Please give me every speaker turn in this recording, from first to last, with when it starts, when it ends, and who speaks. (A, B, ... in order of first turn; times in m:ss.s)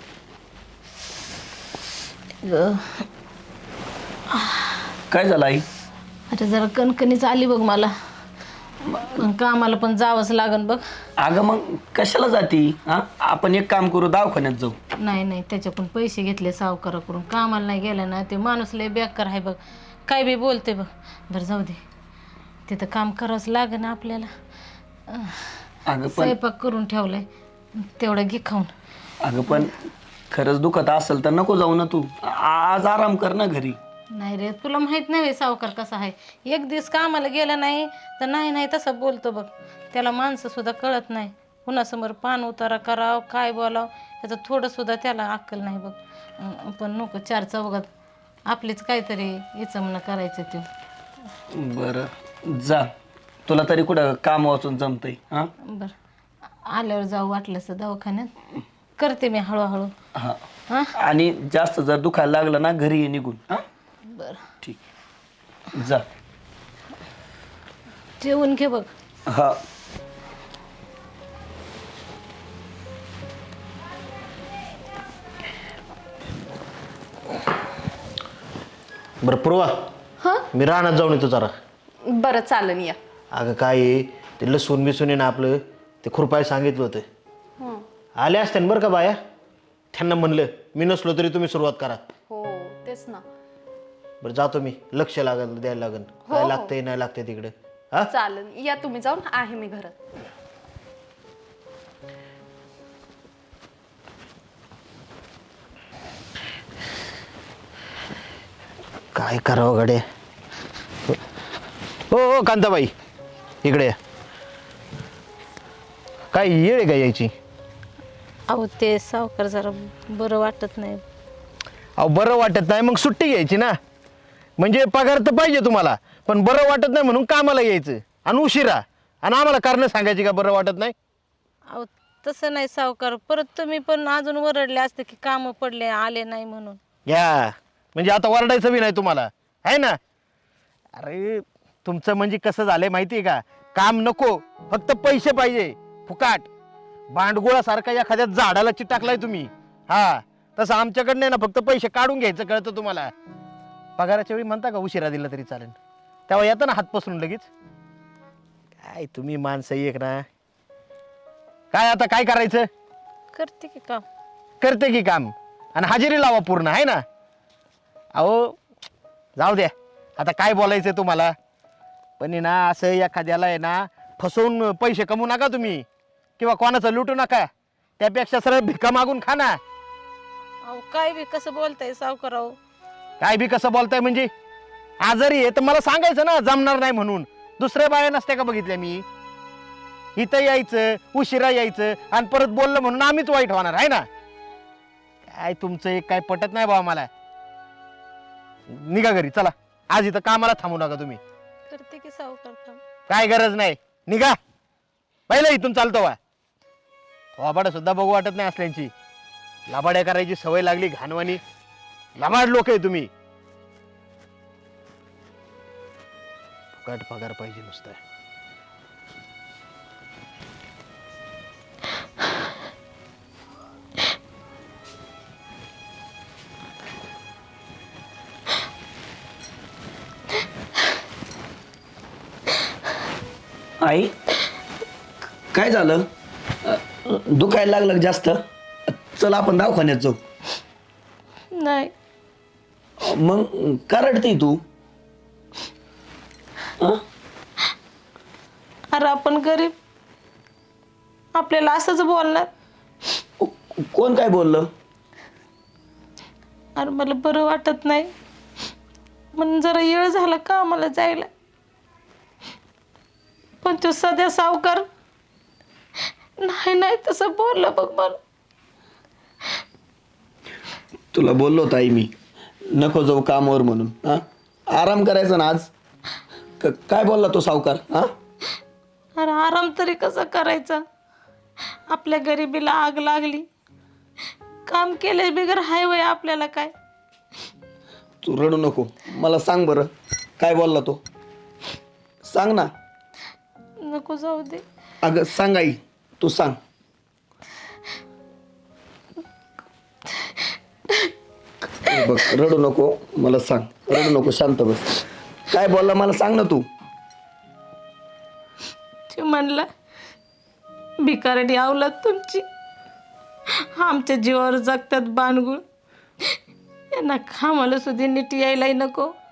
0:02.4-0:03.0 A
0:05.1-0:05.7 B
0:06.3-0:07.9 A
0:08.8-0:10.8 A
0:11.2-0:14.8 B
0:15.0-0:21.8 A
0:22.7-0:24.3 A
0:25.1-0:25.6 A
0:25.9-0:26.4 B
0:26.1-0:28.7 A
0:29.2-0:29.8 B
0:30.3-0:33.8 B
0:34.1-0:47.9 A
0:48.5-0:50.7 A
0:51.5-0:52.9 B
0:53.5-0:55.5 B
0:55.6-0:55.9 A
0:56.7-0:58.3 A
0:59.0-0:59.9 A
1:00.2-1:00.4 B
1:01.0-1:03.6 B
1:04.1-1:04.4 A
1:05.7-1:06.0 B
1:08.2-1:08.9 A
1:09.3-1:09.6 B
1:19.2-1:19.7 C
1:20.5-1:21.5 C
1:22.0-1:23.0 D
1:23.3-1:27.0 C
1:28.2-1:29.2 C
1:29.9-1:32.0 C
1:32.3-1:33.2 D
1:34.2-1:38.1 C
1:36.3-1:36.7 D
1:38.1-1:40.0 D
1:49.2-1:50.0 C
1:52.1-1:52.9 C
1:53.6-1:54.0 C
1:56.3-1:57.3 C
1:58.5-2:01.0 A
2:02.0-2:03.7 C
2:04.6-2:10.9 C
2:11.7-2:16.8 A
2:17.1-2:20.0 C
2:21.0-2:26.5 C
2:27.1-2:33.1 C
2:34.0-2:35.8 C
2:36.3-2:37.5 C
2:38.8-2:40.3 C
2:41.7-2:42.7 C
2:43.3-2:44.0 A
2:44.6-2:47.0 C
2:48.2-2:48.6 C
2:49.4-2:51.3 C
2:52.2-2:55.8 C
2:56.4-2:57.5 C
2:58.0-2:59.6 C
3:00.7-3:02.6 A
3:03.2-3:04.3 C
3:05.0-3:09.0 C
3:10.2-3:14.1 C
3:15.3-3:17.1 C
3:18.7-3:21.2 C
3:21.7-3:22.8 A
3:23.1-3:24.4 C
3:25.3-3:26.2 C
3:27.4-3:28.9 C
3:29.7-3:31.4 C
3:32.2-3:33.1 C
3:36.7-3:38.0 C
3:53.8-3:54.1 B
3:55.5-3:56.1 B
3:56.6-4:00.2 B
4:01.5-4:01.9 A
4:03.0-4:04.6 B
4:08.9-4:09.8 A
4:11.3-4:12.5 A
4:13.4-4:14.7 B
4:16.8-4:18.1 A
4:19.4-4:21.3 A
4:23.6-4:24.9 A
4:26.4-4:28.2 A
4:31.1-4:32.1 B
4:32.7-4:35.7 B
4:36.6-4:38.1 B
4:39.2-4:40.8 A
4:41.9-4:43.5 A
4:44.6-4:46.7 A
4:48.2-4:51.0 B
4:52.2-4:52.7 B
4:53.8-4:54.6 A
4:55.0-4:56.6 B
5:01.9-5:06.7 B
5:09.1-5:09.7 A
5:11.0-5:12.4 A
5:13.6-5:15.6 A
5:16.9-5:19.1 A